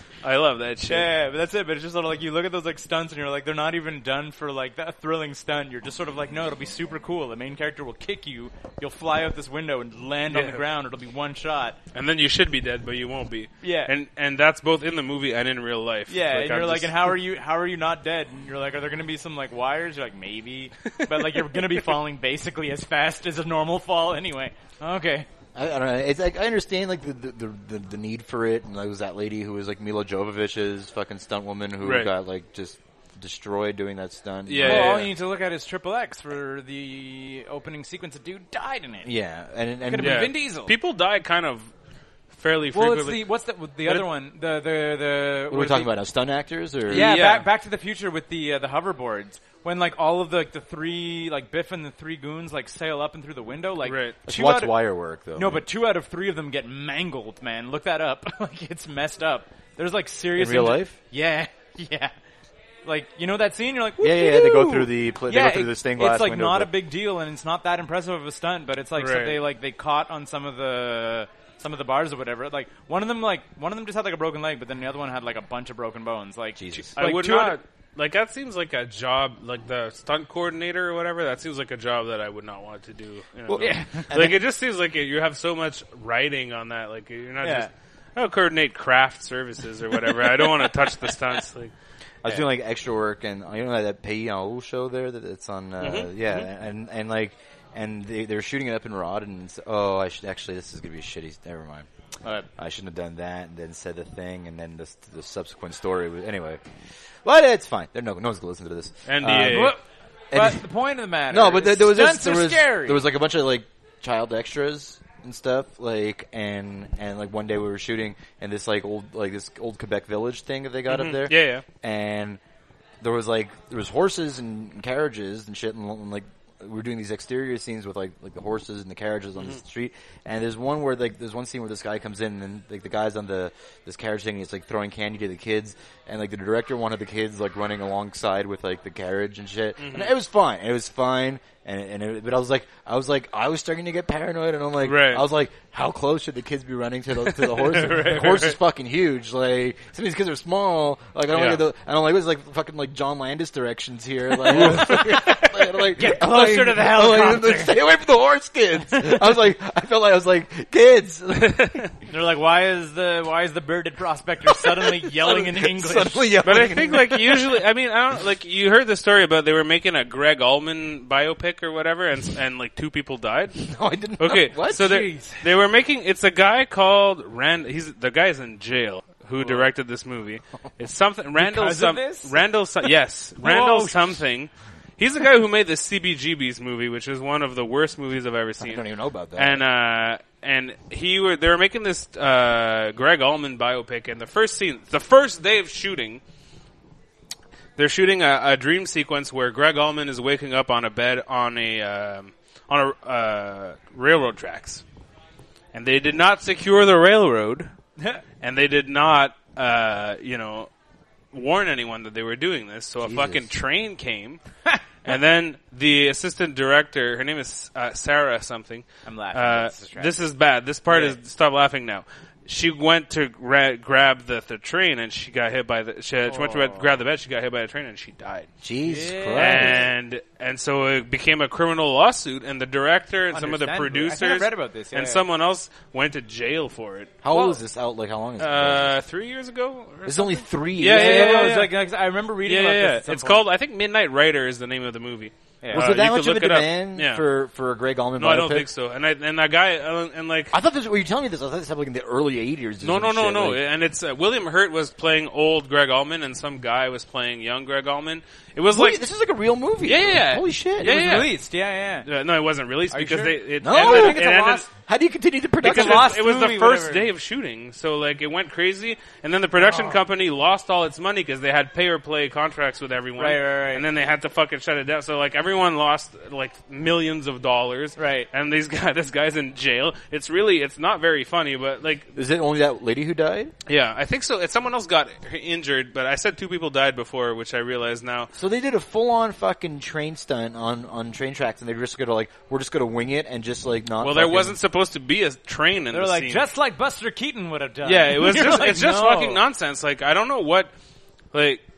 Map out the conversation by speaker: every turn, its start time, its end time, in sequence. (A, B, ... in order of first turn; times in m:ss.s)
0:00.2-0:01.1 A
0:00.9-0:11.8 B
0:10.3-0:10.6 A
0:11.9-0:17.1 A
0:13.6-0:13.9 B
0:16.1-0:25.3 B
0:21.1-0:21.4 A
0:25.6-0:35.1 C
0:31.8-0:32.1 A
0:34.5-0:35.1 A
0:34.6-0:39.1 B
0:39.0-0:40.3 C
0:39.9-0:40.7 B
0:40.0-0:41.7 A
0:42.3-0:43.3 A
0:42.7-0:45.9 B
0:45.5-0:47.1 C
0:46.9-0:47.4 A
0:46.9-0:54.8 B
0:53.8-0:54.2 A
0:54.2-0:55.6 C
0:55.4-1:02.1 B
1:00.4-1:01.0 C
1:02.8-1:17.6 B
1:04.0-1:06.7 C
1:09.0-1:09.4 A
1:16.6-1:17.0 C
1:17.0-1:31.7 A
1:23.5-1:24.4 C
1:23.6-1:24.1 B
1:27.4-1:27.7 B
1:30.2-1:30.8 B
1:32.2-1:41.9 C
1:35.8-1:36.4 A
1:42.6-1:46.6 C
1:47.2-1:49.8 C
1:49.1-1:49.8 A
1:49.5-1:49.8 B
1:50.3-1:50.6 C
1:50.3-1:53.0 B
1:51.3-2:02.4 C
2:00.9-2:01.6 A
2:03.0-2:41.9 C
2:19.8-2:20.1 A
2:24.8-2:25.2 A
2:27.3-2:28.6 A
2:31.3-2:31.6 A
2:34.5-2:37.8 B
2:34.5-2:35.1 A
2:41.5-2:41.9 A
2:42.1-2:46.4 B
2:44.5-2:47.6 C
2:46.4-2:53.6 A
2:53.6-2:54.9 C
2:54.2-3:08.8 A
2:54.7-2:55.5 B
2:59.4-2:59.7 B
3:01.4-3:02.9 B
3:03.4-3:04.1 B
3:08.6-3:09.6 C
3:09.4-3:16.2 A
3:17.8-3:24.8 A
3:25.7-3:27.7 A
3:28.4-3:30.7 A
3:31.3-3:34.4 A
3:33.0-3:33.5 C
3:35.0-3:48.5 A
3:39.1-3:40.2 B
3:40.9-3:41.2 B
3:46.3-3:46.9 B
3:48.6-3:49.9 C
3:48.9-3:49.9 B
3:49.4-3:57.6 A
3:53.3-3:55.2 B
3:57.2-3:59.0 C
3:58.4-4:01.7 A
4:00.1-4:01.6 C
4:00.8-4:03.5 B
4:02.5-4:07.2 A
4:05.6-4:05.9 B
4:05.7-4:08.7 C
4:08.2-4:10.6 A
4:10.5-4:13.6 C
4:12.8-4:19.0 A
4:18.7-4:21.0 C
4:19.8-4:21.3 A
4:20.8-4:22.1 B
4:22.0-4:24.7 A
4:22.9-4:24.6 B
4:23.6-4:26.1 C
4:25.6-4:27.1 B
4:25.6-4:42.1 A
4:29.6-4:30.0 B
4:33.2-4:33.9 B
4:38.0-4:38.3 B
4:42.2-4:43.5 C
4:43.7-4:48.3 A
4:48.4-4:54.6 C
4:54.0-4:56.5 A
4:55.9-4:59.4 B
4:57.8-5:00.7 A
5:01.3-5:01.6 A